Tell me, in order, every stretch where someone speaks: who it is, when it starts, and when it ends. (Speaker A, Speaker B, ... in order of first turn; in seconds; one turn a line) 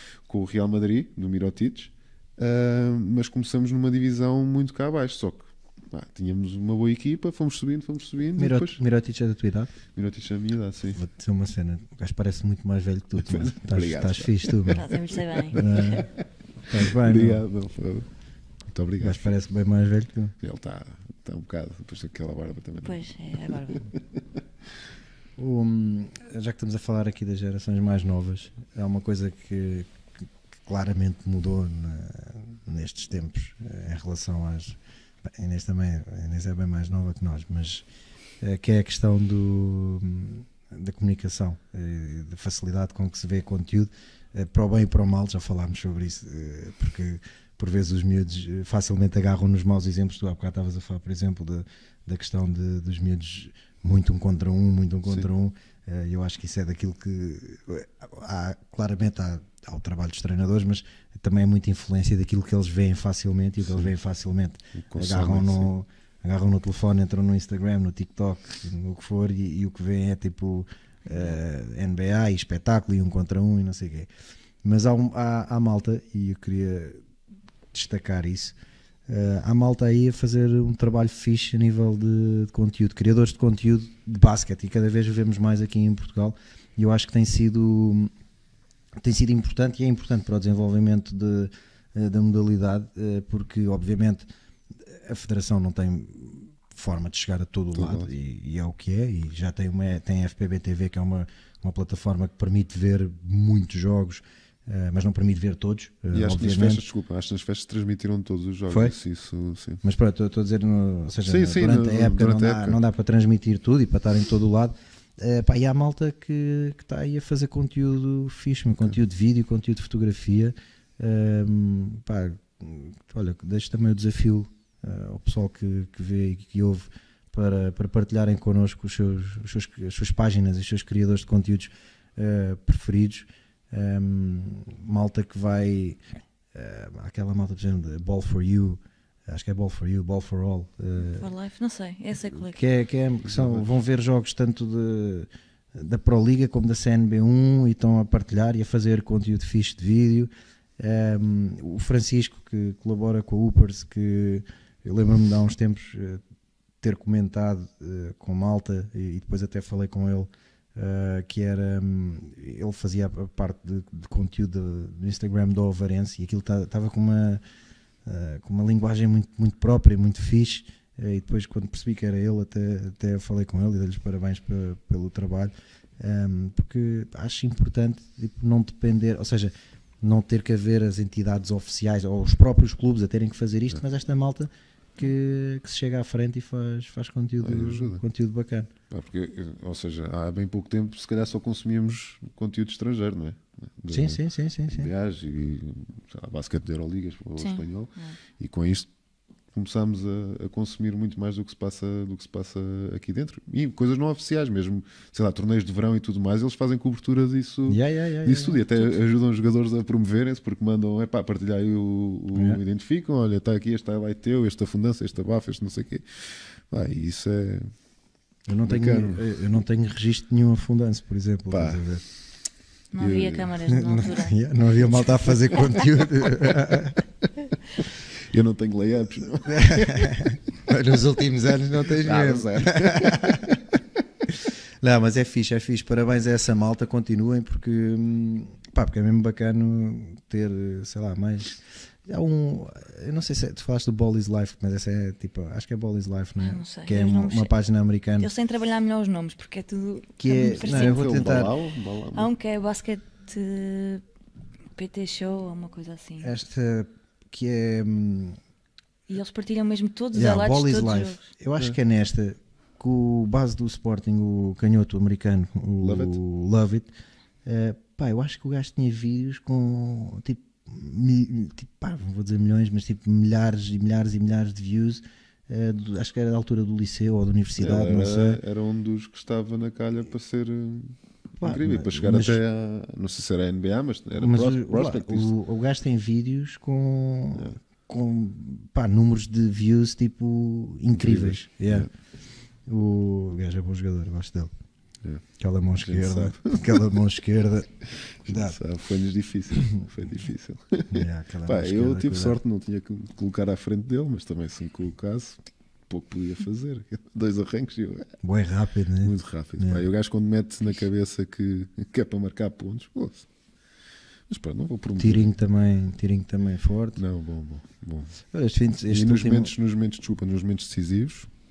Speaker A: 0.3-8.8
Speaker B: 8.4-9.7
Speaker A: 9.9-11.0
Speaker B: 10.9-14.9
Speaker A: 13.2-18.1
Speaker C: 14.8-15.6
Speaker B: 15.5-16.1
Speaker B: 16.7-17.4
Speaker A: 18.7-19.4
Speaker B: 19.0-20.3
Speaker A: 20.4-24.0
Speaker C: 22.8-23.8
Speaker B: 25.4-37.9
Speaker B: 38.4-74.1
Speaker A: 64.8-65.7
Speaker C: 71.1-71.3
Speaker B: 74.6-77.0
Speaker B: 77.7-78.6
Speaker B: 79.1-88.1
Speaker B: 89.0-94.3
Speaker B: 94.8-106.8
Speaker A: 97.7-98.1
Speaker A: 106.1-109.8
Speaker B: 108.7-109.0
Speaker B: 109.8-136.0
Speaker A: 111.2-112.8
Speaker B: 136.5-141.3
Speaker C: 141.0-142.6
Speaker B: 142.3-156.2
Speaker A: 143.3-143.7
Speaker B: 156.8-167.4
Speaker B: 168.1-188.7
Speaker A: 187.4-188.0
Speaker A: 188.9-198.9
Speaker B: 193.9-194.9
Speaker C: 197.4-198.2
Speaker A: 199.5-217.7
Speaker B: 207.7-208.6
Speaker B: 212.3-212.6
Speaker B: 218.5-222.0
Speaker A: 218.7-219.3
Speaker A: 221.5-221.9
Speaker C: 222.9-224.3
Speaker A: 223.0-223.5
Speaker B: 223.7-227.0
Speaker A: 224.9-226.6
Speaker A: 227.8-230.3
Speaker B: 229.5-233.6
Speaker A: 232.0-233.7
Speaker B: 234.8-248.3
Speaker C: 246.4-247.5
Speaker C: 248.2-251.1
Speaker B: 250.2-251.6
Speaker A: 250.6-252.3
Speaker C: 252.1-254.0
Speaker C: 254.8-256.3
Speaker B: 256.2-258.4
Speaker C: 259.1-261.3
Speaker B: 260.1-266.9
Speaker A: 265.8-266.2
Speaker B: 267.4-278.4
Speaker A: 277.6-285.3
Speaker B: 281.4-282.4
Speaker B: 284.2-291.9
Speaker A: 290.9-291.9
Speaker B: 292.7-294.5
Speaker B: 295.4-297.7
Speaker A: 295.8-297.0
Speaker A: 298.2-308.1
Speaker B: 298.3-298.6
Speaker B: 300.9-302.4
Speaker B: 308.2-309.8
Speaker A: 309.0-313.3
Speaker A: 314.3-315.3
Speaker B: 315.0-317.0
Speaker A: 317.0-318.2
Speaker B: 318.3-319.5
Speaker A: 318.9-321.3